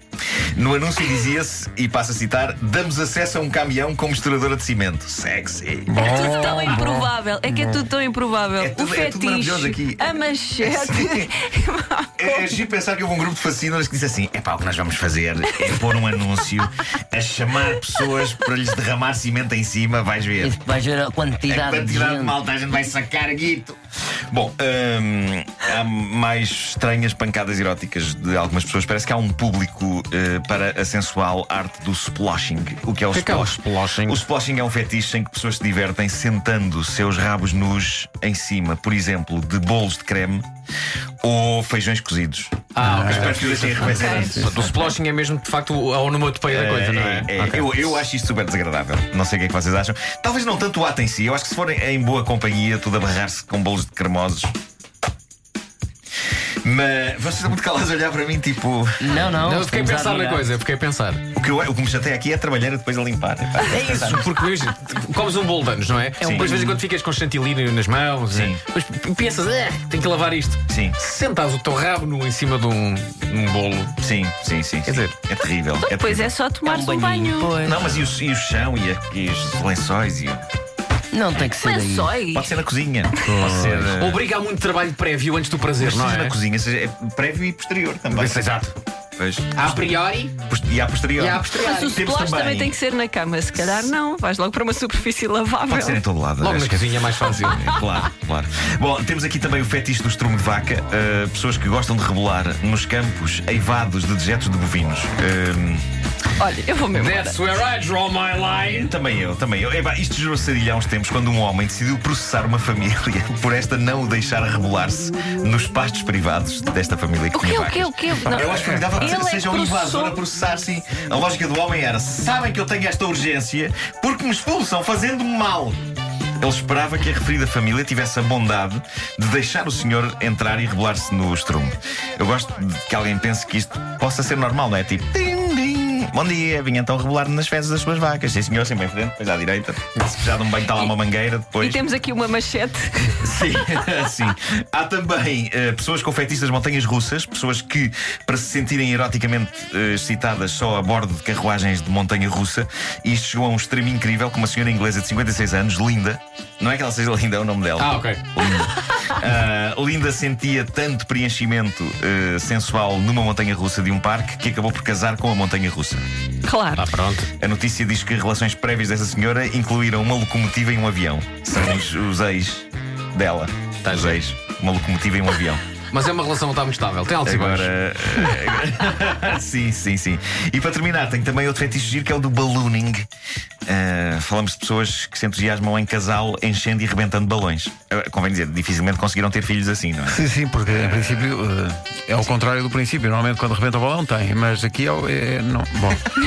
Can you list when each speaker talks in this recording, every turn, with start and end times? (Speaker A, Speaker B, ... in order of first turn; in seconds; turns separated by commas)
Speaker A: 0.5-6.8, Speaker B: 5.9-7.8, Speaker C: 6.0-12.4, Speaker A: 8.6-11.3, Speaker A: 12.2-20.6, Speaker D: 20.4-22.4, Speaker A: 21.4-23.8, Speaker A: 24.3-40.4, Speaker E: 33.1-34.2, Speaker A: 41.2-44.5, Speaker E: 42.8-48.0, Speaker B: 42.8-44.6, Speaker C: 44.0-44.9, Speaker A: 46.5-54.5, Speaker A: 56.6-59.4, Speaker D: 59.0-60.5, Speaker E: 59.4-61.2, Speaker A: 61.4-64.3, Speaker E: 63.7-74.0, Speaker A: 66.2-66.5, Speaker D: 66.3-66.8, Speaker A: 68.3-68.6, Speaker A: 70.7-71.0, Speaker A: 74.0-76.4, Speaker E: 74.8-75.2, Speaker C: 75.8-77.6, Speaker D: 76.6-78.1, Speaker A: 77.6-80.4, Speaker D: 81.1-82.2, Speaker C: 81.4-82.6, Speaker A: 82.3-84.2, Speaker D: 83.3-83.8, Speaker E: 83.3-86.3, Speaker A: 85.8-88.4, Speaker E: 88.1-88.8, Speaker A: 89.2-89.9, Speaker E: 89.5-90.3, Speaker A: 90.5-92.8, Speaker E: 91.2-92.0, Speaker C: 91.6-96.0, Speaker A: 93.6-93.9, Speaker A: 95.7-105.8, Speaker E: 96.4-97.6, Speaker C: 106.4-107.4, Speaker E: 106.9-108.9, Speaker A: 108.6-125.8, Speaker C: 117.3-120.2, Speaker B: 118.2-119.0, Speaker A: 126.4-141.8, Speaker C: 141.6-143.3, Speaker A: 143.2-166.0, Speaker E: 157.8-158.2, Speaker C: 166.4-166.8, Speaker E: 166.7-167.3, Speaker A: 167.4-175.6, Speaker E: 173.8-174.2, Speaker E: 175.9-177.7, Speaker A: 177.2-183.0, Speaker A: 183.7-191.3, Speaker B: 190.1-196.1